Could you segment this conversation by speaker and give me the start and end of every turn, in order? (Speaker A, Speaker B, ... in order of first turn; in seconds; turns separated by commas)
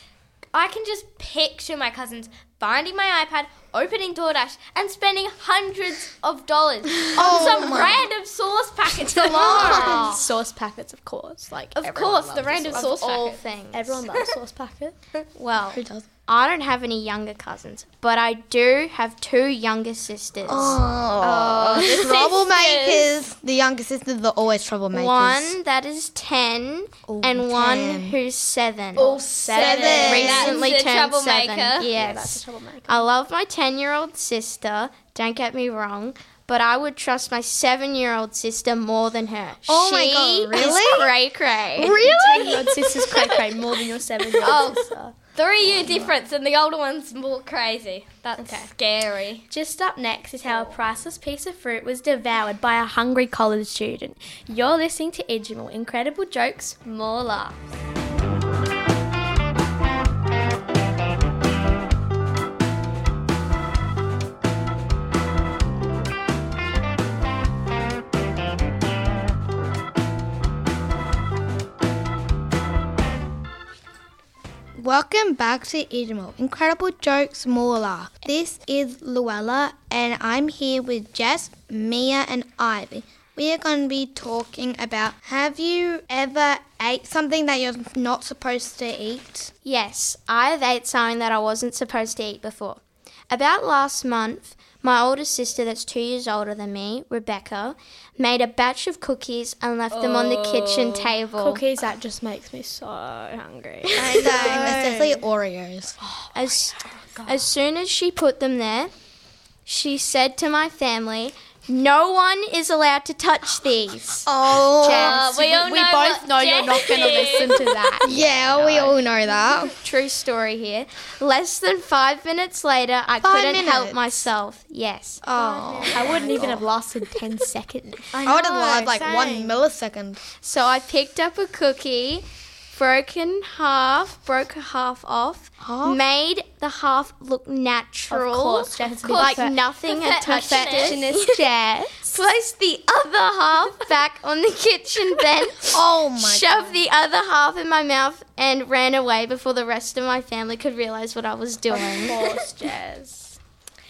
Speaker A: 0.5-10.2, Speaker B: 7.1-8.0, Speaker C: 9.1-13.1, Speaker B: 9.2-10.2, Speaker A: 11.8-13.4, Speaker D: 12.7-14.0, Speaker C: 13.7-14.9, Speaker D: 15.3-20.8, Speaker B: 15.7-16.1, Speaker B: 20.4-25.6, Speaker A: 21.2-23.2, Speaker D: 24.9-29.1, Speaker B: 27.1-28.2, Speaker C: 28.9-30.6, Speaker A: 28.9-31.9, Speaker B: 29.5-30.6, Speaker D: 29.9-42.0, Speaker C: 31.9-33.1, Speaker B: 39.7-41.1, Speaker B: 41.8-42.6, Speaker C: 41.9-45.2, Speaker A: 42.0-43.5, Speaker A: 44.4-49.5, Speaker C: 45.8-46.1, Speaker C: 48.2-48.7, Speaker C: 49.5-57.7, Speaker B: 74.8-89.5, Speaker D: 89.6-101.6, Speaker A: 99.9-101.2, Speaker C: 101.3-105.2, Speaker B: 104.2-106.0, Speaker A: 104.3-104.7, Speaker C: 106.0-107.5, Speaker D: 106.3-108.9, Speaker D: 109.7-115.2, Speaker B: 114.2-115.2, Speaker A: 114.8-119.0, Speaker C: 115.0-118.1, Speaker B: 118.0-119.7, Speaker D: 119.8-125.2, Speaker B: 123.2-124.3, Speaker B: 125.2-126.7, Speaker C: 125.3-128.1, Speaker D: 126.1-126.4, Speaker A: 128.1-129.6, Speaker B: 128.2-130.2, Speaker D: 130.4-141.4, Speaker B: 135.6-136.0, Speaker C: 138.1-142.2, Speaker A: 139.0-141.0, Speaker D: 142.1-152.3, Speaker B: 145.7-146.8, Speaker C: 151.7-153.4